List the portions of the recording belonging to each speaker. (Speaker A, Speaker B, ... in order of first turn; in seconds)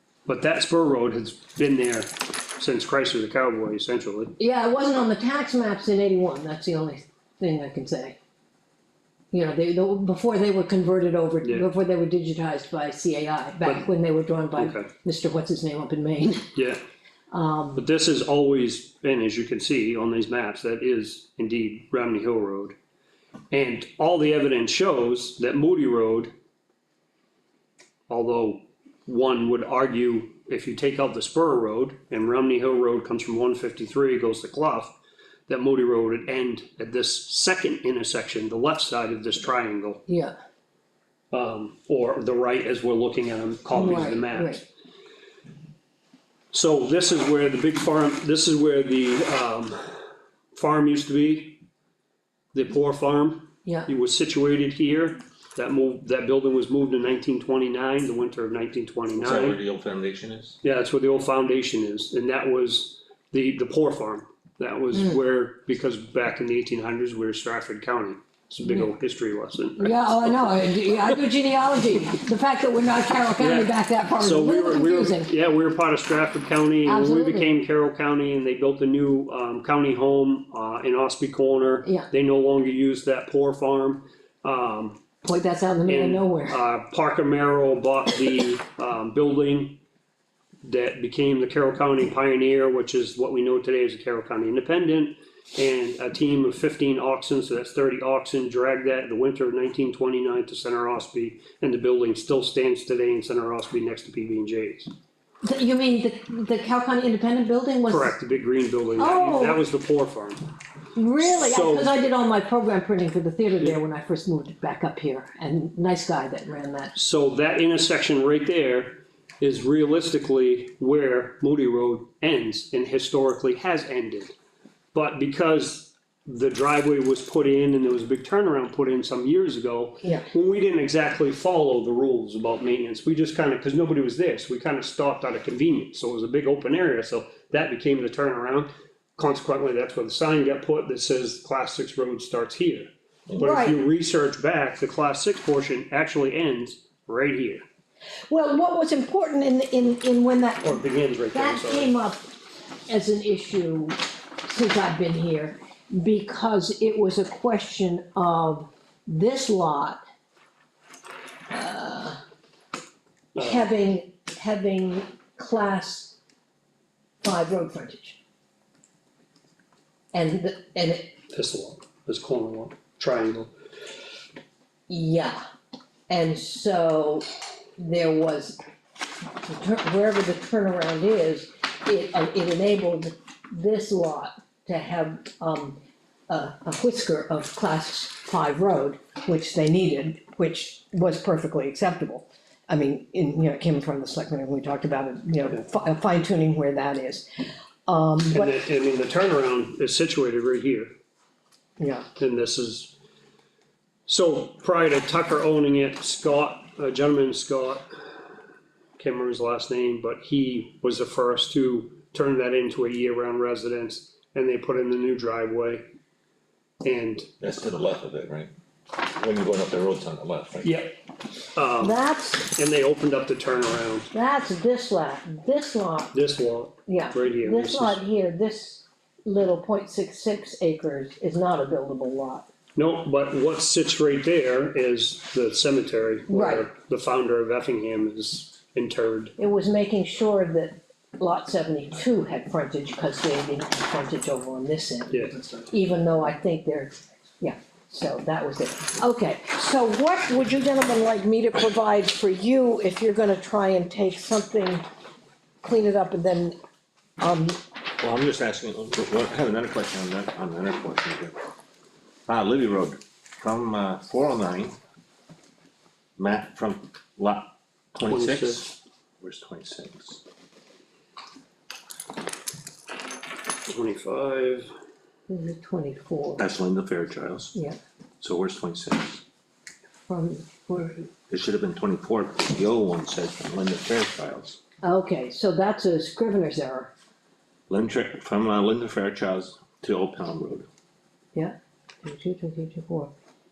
Speaker A: 0.3-4.3, 14.6-14.9, 16.6-16.8, 17.8-22.8, 23.5-26.3, 28.1-34.9, 35.5-40.0, 41.3-44.6, 46.5-50.0, 50.5-51.6, 52.5-59.6, 60.6-70.5, 73.4-85.0, 85.9-89.8, 90.6-104.9, 107.9-110.4, 111.2-111.9, 117.0-124.3, 124.9-147.6, 150.6-151.9, 163.3-163.7, 171.3-173.5, 198.3-200.9, 202.2-202.9, 204.1-207.9, 209.0-215.9, 216.8-217.3, 220.6-221.0, 221.6-224.1, 226.1-228.0, 232.8-239.3, 245.1-245.4, 268.0-268.7, 273.7-274.7
Speaker B: 4.4-8.2, 9.3-16.5, 17.3-17.8, 40.1-40.4, 43.7-44.6, 64.9-65.2, 69.8-75.3, 76.8-77.5, 85.2-86.6, 105.4-108.1, 109.0-109.6, 111.0-116.9, 143.4-143.8, 148.3-152.3, 152.9-160.0, 161.5-162.2, 163.4-166.2, 167.2-168.2, 170.1-171.2, 174.9-175.4, 176.1-177.2, 177.8-178.6, 179.4-197.3, 197.9-198.6, 201.8-202.1, 221.8-222.5, 224.1-226.1, 226.9-232.5, 236.3-236.7, 239.4-254.8, 255.6-256.6, 257.2-257.6, 275.3-276.4, 280.1-281.1, 284.8-286.9, 291.4-293.1
Speaker C: 59.2-60.6, 217.4-220.7, 258.0-261.4, 262.3-264.8, 266.2-270.2, 276.4-277.6, 278.2-279.2, 281.3-284.6, 287.7-290.7